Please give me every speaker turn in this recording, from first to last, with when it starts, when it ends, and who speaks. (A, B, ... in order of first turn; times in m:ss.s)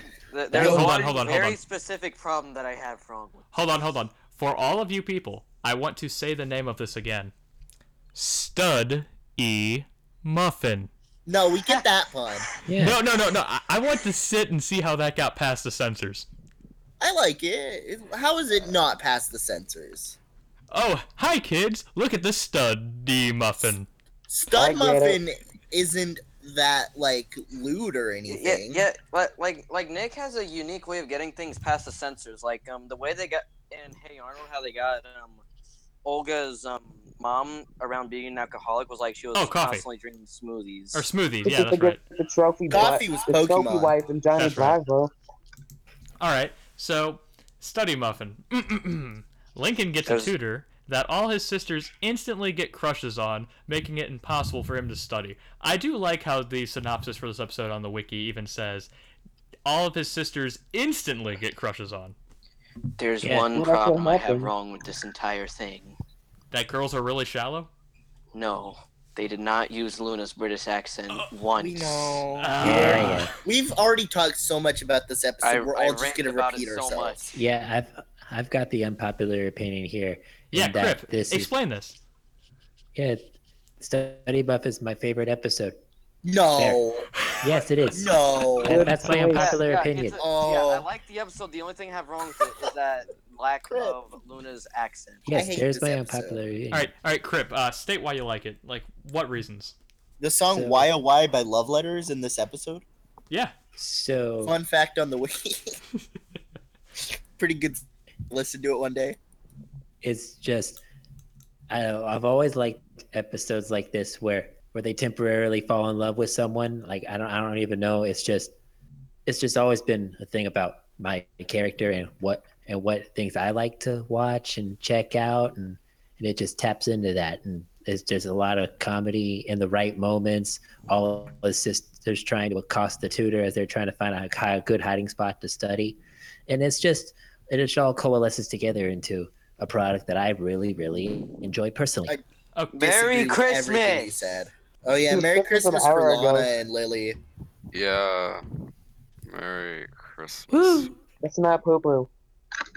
0:00.3-0:03.5 A
0:00.5-0:00.9 B
0:00.6-0:01.6 C
0:03.5-0:07.3 C
0:08.2-0:10.9 C
0:11.3-0:12.5 D
0:12.7-0:13.0 E
0:12.8-0:16.3 C
0:17.0-0:20.2 D
0:20.7-0:23.9 C
0:24.3-0:28.9 D
0:24.5-0:25.2 B
0:28.3-0:35.4 A
0:36.0-0:41.1 A
0:39.3-0:39.8 C
0:40.9-0:42.0 C
0:41.4-0:45.1 B
0:42.7-0:43.9 D
0:44.4-0:44.8 C
0:46.2-0:58.9 C
0:50.1-0:50.3 A
0:59.7-1:02.2 C
1:03.0-1:06.0 A
1:03.2-1:03.5 E
1:03.5-1:04.5 B
1:06.5-1:07.7 C
1:08.3-1:12.2 A
1:11.6-1:17.4 D
1:12.4-1:13.3 C
1:12.6-1:13.3 E
1:15.4-1:17.2 A
1:17.4-1:21.5 E
1:20.5-1:22.0 C
1:23.0-1:23.3 E
1:23.8-1:25.8 E
1:26.2-1:27.1 D
1:26.6-1:26.8 E
1:27.4-1:30.2 E
1:27.9-1:28.9 D
1:28.6-1:29.6 B
1:29.3-1:35.2 A
1:30.2-1:30.9 D
1:35.3-1:36.9 E
1:35.3-1:36.4 D
1:36.7-1:39.8 C
1:40.2-1:42.8 D
1:40.5-1:40.9 E
1:43.8-1:44.6 E
1:44.4-1:45.8 D
1:47.4-1:49.2 D
1:50.0-1:50.8 E
1:51.7-1:58.5 E
1:59.3-2:22.2 E
2:22.6-2:22.9 C
2:22.7-2:24.2 A
2:22.8-2:27.2 D
2:25.1-2:26.5 B
2:27.7-2:28.4 F
2:29.3-2:30.9 F
2:30.5-2:30.9 E
2:31.2-2:32.1 B